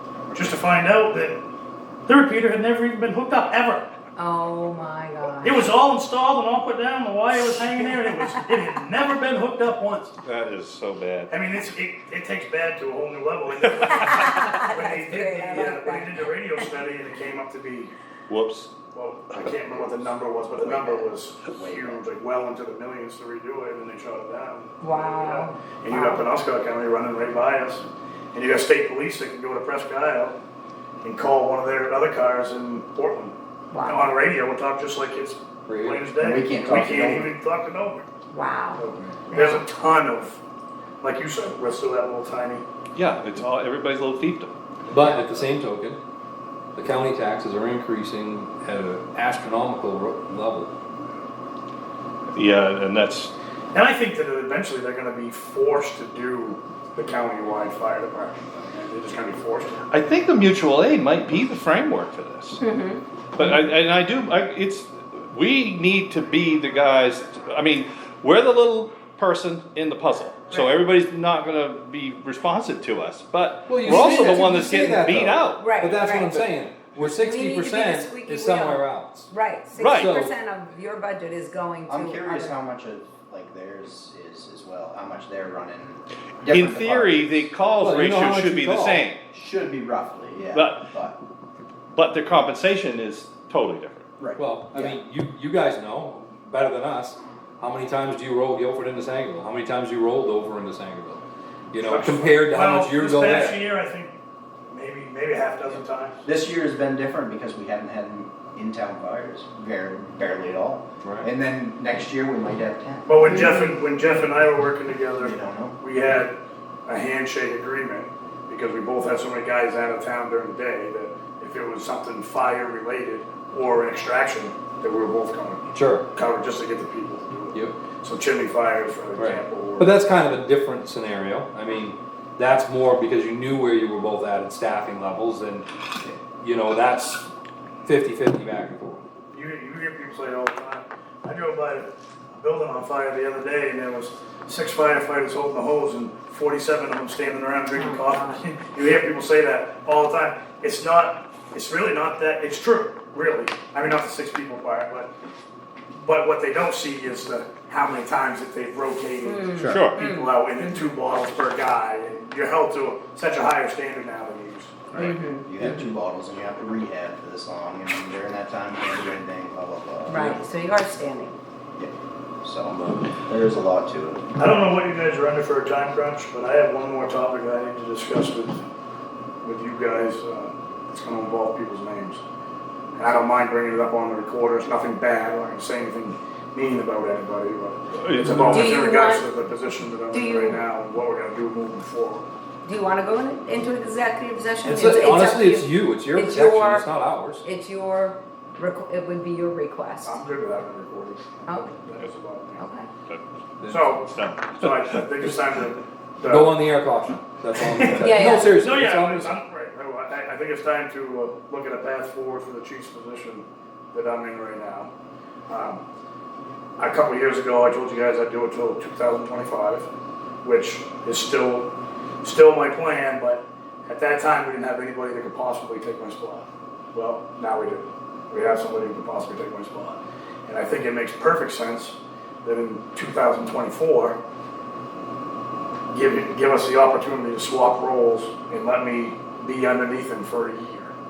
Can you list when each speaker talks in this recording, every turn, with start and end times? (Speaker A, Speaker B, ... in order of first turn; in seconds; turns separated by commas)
Speaker A: 0.2-0.6, Speaker B: 0.3-1.4, Speaker B: 2.1-3.9, Speaker C: 4.2-5.6, Speaker B: 5.4-10.1, Speaker D: 10.2-11.3, Speaker B: 11.3-17.9, Speaker D: 13.9-14.4, Speaker C: 13.9-16.2, Speaker D: 18.3-18.7, Speaker B: 18.9-30.4, Speaker A: 19.7-22.0, Speaker C: 24.8-26.2, Speaker B: 31.0-38.0, Speaker C: 33.7-34.0, Speaker E: 35.7-36.0, Speaker A: 36.2-37.3, Speaker C: 38.3-38.8, Speaker B: 38.8-40.4, Speaker C: 39.3-39.6, Speaker B: 41.0-42.6, Speaker D: 42.9-44.6, Speaker E: 44.9-46.0, Speaker E: 46.8-50.7, Speaker D: 52.3-53.3, Speaker B: 53.7-59.8, Speaker D: 59.9-62.6, Speaker C: 62.6-63.0, Speaker D: 63.3-75.7, Speaker E: 73.7-79.3, Speaker C: 74.0-74.2, Speaker C: 75.5-76.5, Speaker C: 77.0-82.5, Speaker D: 79.7-80.3, Speaker E: 80.0-80.3, Speaker A: 81.9-87.4, Speaker D: 86.5-89.2, Speaker E: 87.8-89.0, Speaker A: 89.3-91.2, Speaker D: 90.5-90.8, Speaker D: 91.9-94.1, Speaker A: 94.2-95.0, Speaker E: 94.4-101.2, Speaker E: 101.7-103.6, Speaker B: 101.8-104.1, Speaker B: 104.7-106.2, Speaker A: 106.2-113.4, Speaker B: 113.1-129.9, Speaker C: 113.3-113.6, Speaker A: 115.2-115.8, Speaker E: 125.7-126.0, Speaker E: 129.2-137.2, Speaker E: 137.8-139.0, Speaker B: 139.3-155.1, Speaker C: 147.7-148.4, Speaker B: 156.0-165.1, Speaker C: 159.2-160.4, Speaker D: 159.6-160.0, Speaker C: 164.9-165.8, Speaker A: 165.4-170.4, Speaker C: 170.1-171.3, Speaker A: 171.8-174.3, Speaker B: 174.4-178.6, Speaker B: 179.4-182.2, Speaker B: 183.0-192.3, Speaker D: 187.9-188.8, Speaker C: 188.5-189.3, Speaker C: 190.1-190.6, Speaker C: 192.6-196.8, Speaker E: 194.6-197.4, Speaker C: 197.4-200.2, Speaker B: 200.0-202.6, Speaker C: 201.4-201.7, Speaker C: 202.6-202.9, Speaker E: 203.6-203.9, Speaker B: 203.7-206.6, Speaker D: 204.0-205.2, Speaker E: 206.2-209.3, Speaker B: 207.6-214.9, Speaker C: 207.9-208.5, Speaker B: 215.5-215.8, Speaker B: 216.8-219.9, Speaker B: 220.4-234.2, Speaker B: 235.9-240.9